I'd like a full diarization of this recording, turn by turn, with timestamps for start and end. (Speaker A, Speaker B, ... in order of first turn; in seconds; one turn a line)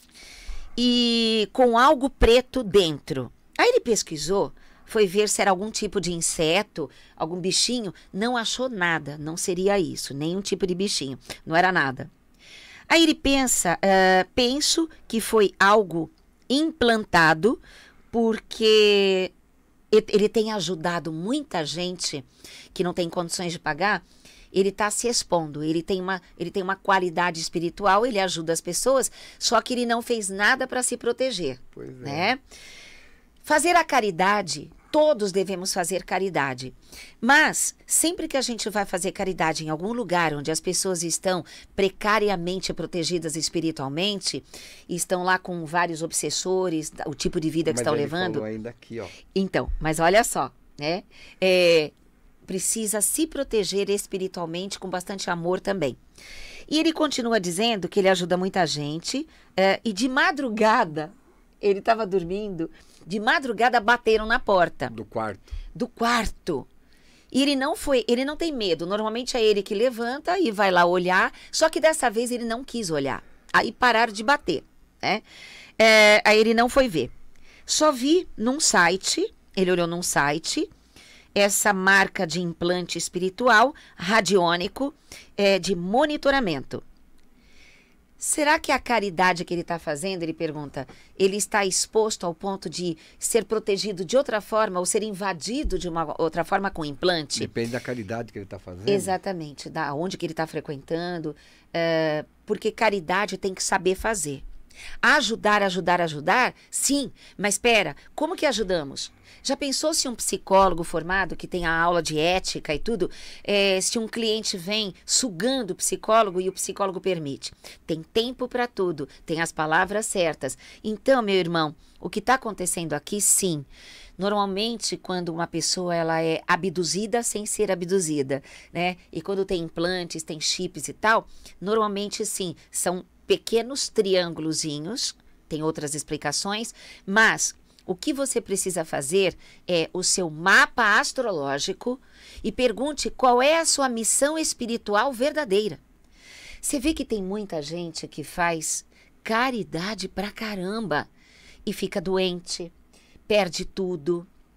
Speaker A: 0.8-12.1
Speaker A: 12.9-17.6
Speaker A: 18.1-19.3
Speaker A: 19.9-32.4
Speaker B: 31.7-32.3
Speaker A: 33.4-48.4
Speaker B: 47.6-49.1
Speaker A: 49.3-51.9
Speaker A: 52.5-56.0
Speaker A: 56.7-64.9
Speaker B: 64.9-65.5
Speaker A: 65.7-66.7
Speaker A: 67.3-75.2
Speaker A: 75.8-77.1
Speaker A: 77.7-80.7
Speaker A: 81.3-86.8
Speaker A: 88.2-97.5
Speaker B: 97.3-99.2
Speaker A: 98.9-104.4
Speaker A: 105.0-123.7
Speaker A: 124.2-145.8
Speaker A: 146.6-151.1
Speaker A: 151.7-152.7
Speaker A: 153.3-154.3